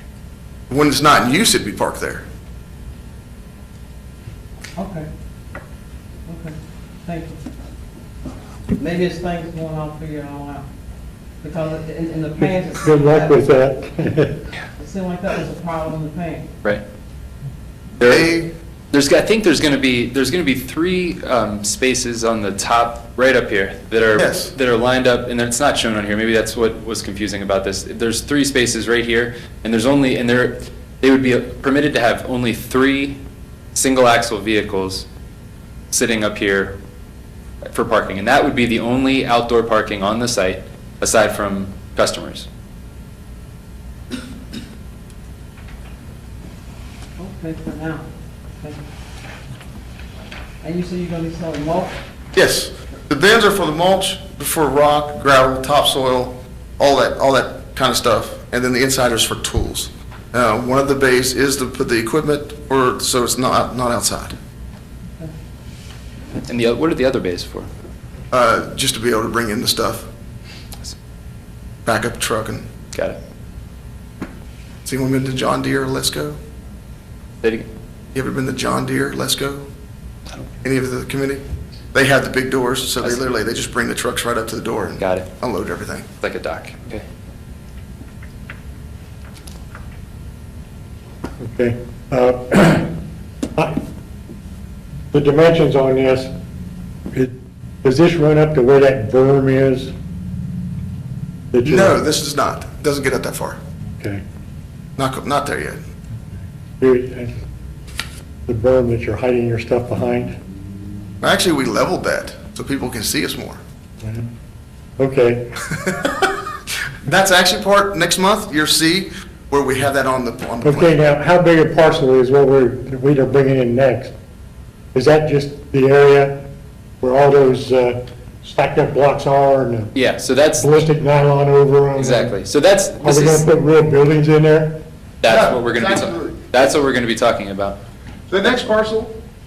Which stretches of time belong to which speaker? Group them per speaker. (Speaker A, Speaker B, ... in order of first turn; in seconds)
Speaker A: 0.7-2.2, 18.0-18.5, 24.2-24.5, 52.4-64.3, 68.3-70.1, 71.8-72.7, 74.8-76.4, 78.1-79.7, 80.6-81.4, 81.9-86.1, 101.7-103.6, 105.0-105.8, 111.2-113.6, 117.0-121.1, 135.3-136.6, 138.3-139.2
Speaker B: 4.8-5.1, 6.3-7.4, 8.8-10.7, 11.4-13.4, 14.8-16.5, 47.2-48.8, 50.6-52.0
Speaker C: 12.8-14.4, 91.4-92.9, 95.1-96.3, 97.1-99.9, 101.5-102.0, 106.8-107.4, 108.5-110.3, 114.0-114.3, 115.0-115.5, 120.6-124.1, 124.9-126.4, 127.0-129.9, 130.6-132.4, 133.0-134.8
Speaker D: 18.0-18.3, 18.9-33.2, 33.8-35.1, 35.9-36.8, 37.7-42.5, 66.5-67.7, 72.9-73.2, 77.4-77.7, 83.0-83.3, 85.0-85.3, 86.2-87.0, 129.9-130.9, 132.0-133.4, 135.2-137.8